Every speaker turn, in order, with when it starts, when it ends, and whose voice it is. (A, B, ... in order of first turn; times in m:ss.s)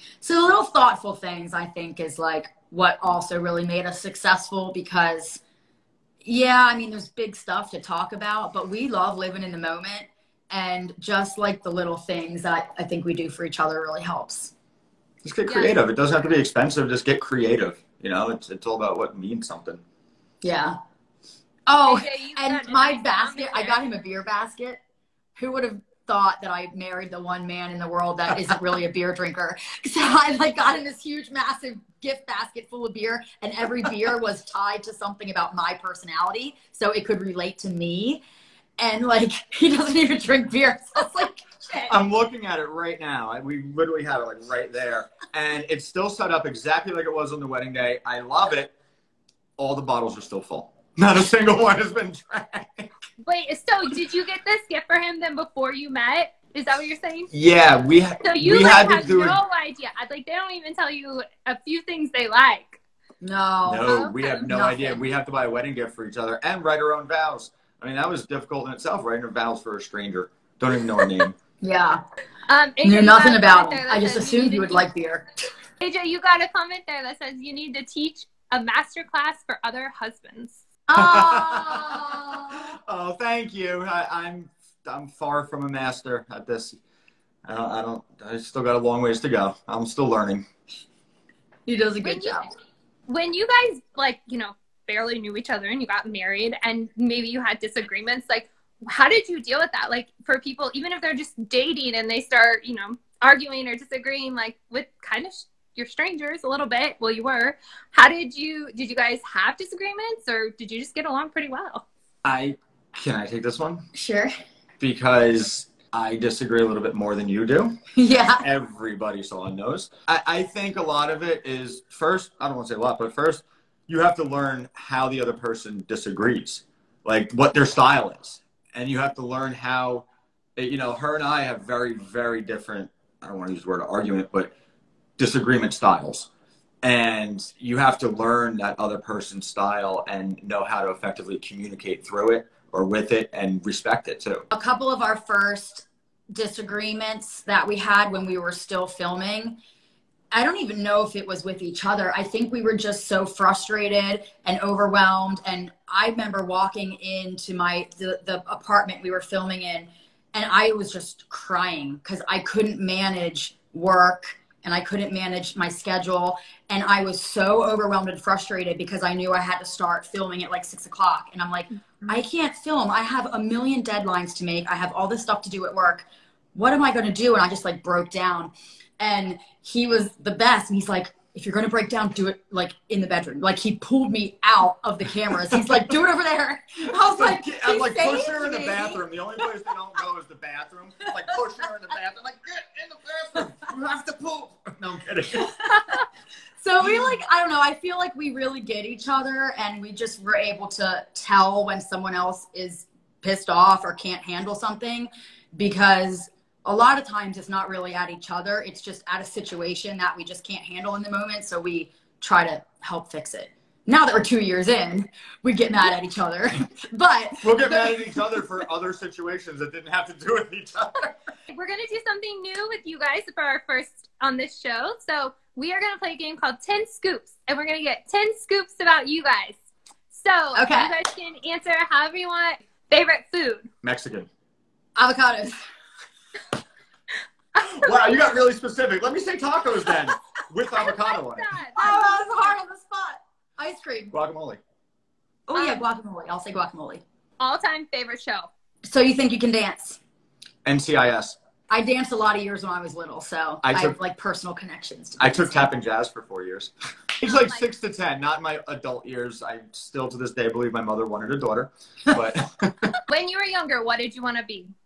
0:00.2-0:05.4 A
0:06.2-0:14.5 A
0:15.2-0:19.8 B
0:15.5-0:15.8 C
0:20.4-0:20.8 A
0:21.7-0:24.8 A
0:21.9-0:23.8 C
0:25.4-0:38.2 A
0:38.8-0:42.0 A
0:41.9-0:48.7 B
0:49.6-0:52.9 B
0:53.2-0:57.3 C
0:57.3-0:59.4 B
0:58.2-1:02.8 C
1:03.2-1:05.0 A
1:03.7-1:11.4 B
1:03.9-1:04.4 C
1:11.6-1:12.0 A
1:12.5-1:14.8 C
1:12.8-1:15.3 A
1:15.8-1:20.6 C
1:20.9-1:22.7 A
1:20.9-1:26.8 B
1:27.4-1:30.5 B
1:31.7-1:32.5 A
1:32.0-1:32.4 C
1:33.1-1:51.8 C
1:52.2-1:53.8 B
1:53.9-1:54.3 A
1:54.8-2:14.5 B
1:58.0-1:58.5 A
2:15.2-2:16.3 B
2:16.8-2:24.5 B
2:24.5-2:29.6 A
2:30.3-3:09.0 A
3:06.9-3:15.6 B
3:15.7-3:16.0 A
3:16.6-3:38.2 A
3:37.4-3:41.2 B
3:41.5-3:49.6 C
3:50.1-3:53.7 C
3:50.6-3:51.0 A
3:53.8-3:54.3 B
3:55.0-3:55.6 A
3:57.6-3:58.2 C
3:57.6-4:02.0 B
4:00.7-4:01.8 C
4:01.8-4:04.1 A
4:04.1-4:04.6 B
4:05.5-4:07.0 A
4:05.6-4:05.8 C
4:07.4-4:08.5 C
4:08.8-4:10.0 A
4:10.6-4:11.4 B
4:11.7-4:15.7 A
4:13.6-4:14.0 B
4:15.2-4:23.0 B
4:17.2-4:17.7 C
4:23.1-4:24.7 C